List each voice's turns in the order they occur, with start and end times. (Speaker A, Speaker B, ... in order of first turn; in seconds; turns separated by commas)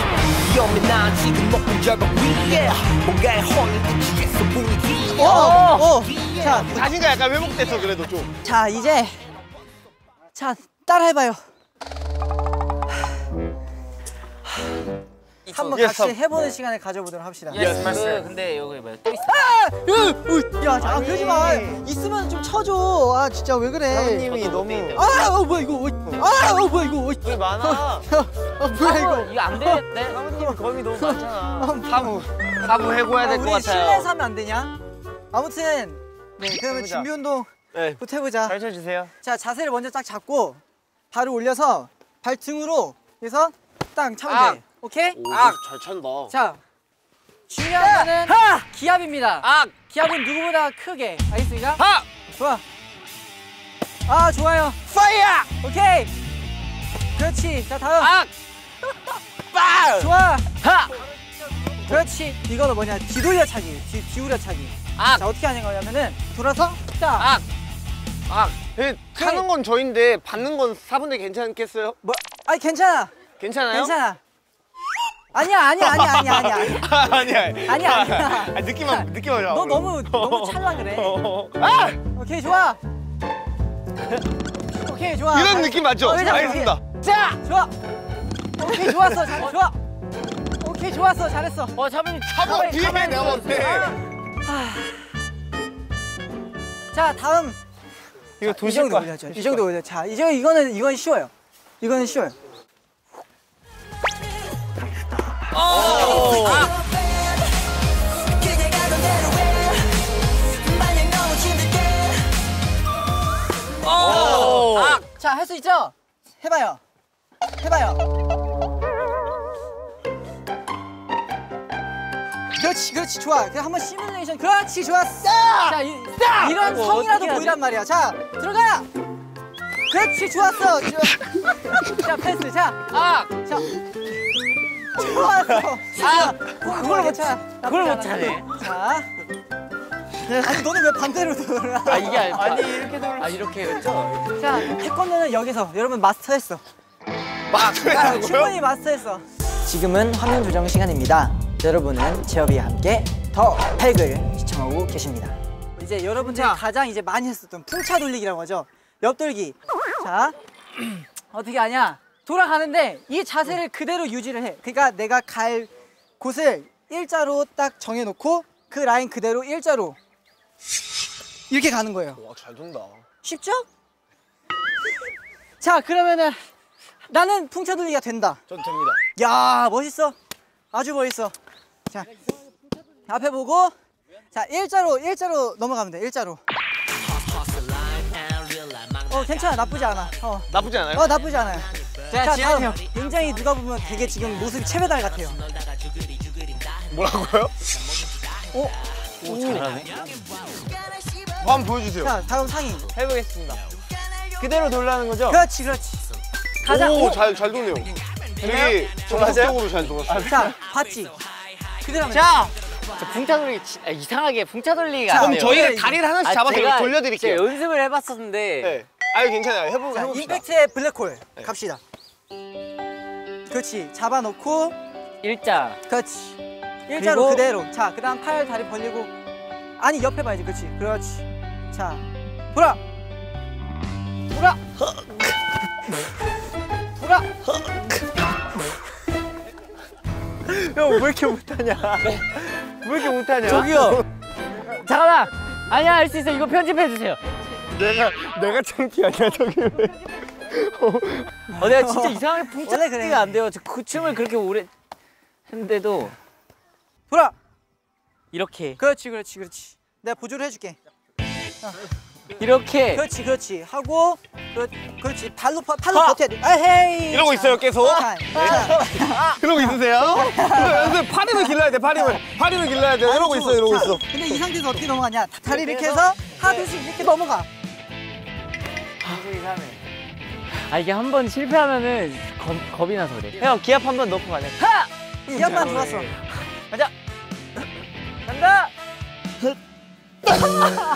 Speaker A: 0.5-2.3, Speaker B: 1.7-2.1, Speaker A: 3.0-4.9, Speaker C: 5.1-6.0, Speaker D: 5.1-6.8, Speaker B: 6.4-8.3, Speaker C: 6.5-6.9, Speaker D: 8.4-9.2, Speaker D: 10.3-11.4, Speaker C: 15.4-15.8, Speaker D: 15.5-17.7, Speaker B: 15.7-16.1, Speaker E: 15.8-16.1, Speaker C: 17.5-19.4, Speaker B: 17.5-18.3, Speaker E: 17.8-18.0, Speaker D: 19.2-24.3, Speaker E: 20.8-21.8, Speaker E: 23.9-25.1, Speaker C: 24.3-25.1, Speaker D: 24.9-29.8, Speaker E: 27.2-28.1, Speaker C: 28.6-30.5, Speaker E: 29.9-32.2, Speaker D: 31.0-32.3, Speaker C: 32.6-34.1, Speaker D: 33.1-34.7, Speaker D: 35.3-38.5, Speaker E: 36.5-37.1, Speaker E: 38.4-39.1, Speaker D: 39.2-45.2, Speaker C: 44.2-44.6, Speaker B: 45.1-46.3, Speaker C: 45.2-45.6, Speaker D: 46.3-46.6, Speaker D: 47.5-52.6, Speaker C: 47.6-48.6, Speaker C: 49.4-49.7, Speaker C: 51.8-52.0, Speaker D: 54.0-54.8, Speaker C: 54.9-55.5, Speaker D: 55.6-56.1, Speaker D: 57.1-58.1, Speaker C: 58.0-58.3, Speaker C: 59.5-60.9, Speaker D: 60.0-60.4, Speaker D: 61.9-67.3, Speaker C: 65.0-65.2, Speaker C: 67.2-67.4, Speaker B: 68.3-72.0, Speaker D: 69.2-69.5, Speaker D: 72.0-73.1, Speaker B: 73.4-73.9, Speaker D: 73.7-74.2, Speaker D: 75.3-81.2, Speaker B: 75.8-81.9, Speaker D: 82.1-82.8, Speaker D: 84.7-86.8, Speaker B: 85.3-86.8, Speaker C: 87.0-87.4, Speaker D: 87.4-87.7, Speaker D: 88.6-89.8, Speaker D: 90.6-91.8, Speaker C: 91.8-93.9, Speaker B: 92.3-94.0, Speaker D: 94.4-95.1, Speaker D: 96.9-97.6, Speaker E: 98.4-99.6, Speaker D: 98.4-102.3, Speaker C: 105.5-106.8, Speaker E: 105.7-106.7, Speaker B: 106.3-106.6, Speaker C: 108.8-109.2, Speaker C: 113.8-115.0, Speaker D: 114.0-116.8, Speaker E: 114.0-115.0, Speaker D: 117.6-118.0, Speaker D: 122.5-128.9, Speaker C: 125.5-127.6, Speaker D: 129.9-132.9, Speaker C: 132.9-133.3, Speaker D: 133.4-133.7, Speaker D: 134.9-139.1, Speaker C: 135.9-138.5, Speaker D: 140.2-142.5, Speaker C: 141.8-144.6, Speaker E: 142.3-143.4, Speaker D: 144.4-146.6, Speaker B: 147.5-148.5, Speaker D: 147.8-160.3, Speaker E: 156.2-156.6, Speaker D: 161.3-170.0, Speaker D: 171.5-172.2, Speaker B: 172.2-173.0, Speaker D: 173.2-173.7, Speaker D: 175.6-176.4, Speaker D: 177.1-178.4, Speaker B: 178.5-179.0, Speaker D: 179.2-180.2, Speaker D: 180.7-181.3, Speaker D: 183.1-183.7, Speaker D: 184.3-186.4, Speaker D: 189.1-195.4, Speaker B: 190.5-191.1, Speaker C: 192.1-192.7, Speaker E: 192.1-192.7, Speaker B: 196.9-197.5, Speaker C: 199.2-200.0, Speaker D: 199.2-199.6, Speaker B: 201.4-202.1, Speaker D: 202.0-202.9, Speaker E: 202.9-203.6, Speaker E: 204.4-205.4, Speaker D: 205.3-206.1, Speaker D: 206.6-207.2, Speaker B: 206.7-207.9, Speaker B: 208.4-210.4, Speaker E: 208.4-210.5, Speaker D: 210.2-211.2, Speaker D: 211.8-212.3, Speaker E: 212.1-212.5, Speaker C: 212.9-218.8, Speaker D: 215.1-216.0, Speaker B: 215.1-217.5, Speaker B: 218.6-220.4, Speaker D: 219.9-221.8, Speaker D: 223.5-224.8, Speaker C: 225.2-225.8, Speaker D: 225.9-226.4, Speaker D: 226.9-229.1, Speaker C: 226.9-227.5, Speaker D: 229.8-232.8, Speaker D: 234.3-234.6, Speaker D: 237.0-237.2, Speaker E: 240.4-243.8, Speaker C: 243.4-244.0, Speaker C: 244.8-247.2, Speaker B: 247.7-251.5, Speaker D: 251.5-253.3, Speaker C: 251.6-254.7, Speaker C: 255.5-256.1, Speaker D: 257.1-257.3, Speaker C: 258.3-258.8, Speaker D: 258.8-260.8, Speaker C: 262.4-263.0, Speaker D: 262.9-272.2, Speaker C: 265.9-266.2, Speaker B: 267.1-274.4, Speaker D: 273.0-277.5, Speaker E: 275.5-276.7, Speaker E: 279.0-279.9, Speaker C: 280.7-283.4, Speaker E: 283.4-284.6, Speaker C: 284.6-286.1, Speaker D: 285.3-286.1, Speaker E: 285.3-286.0, Speaker E: 288.2-288.7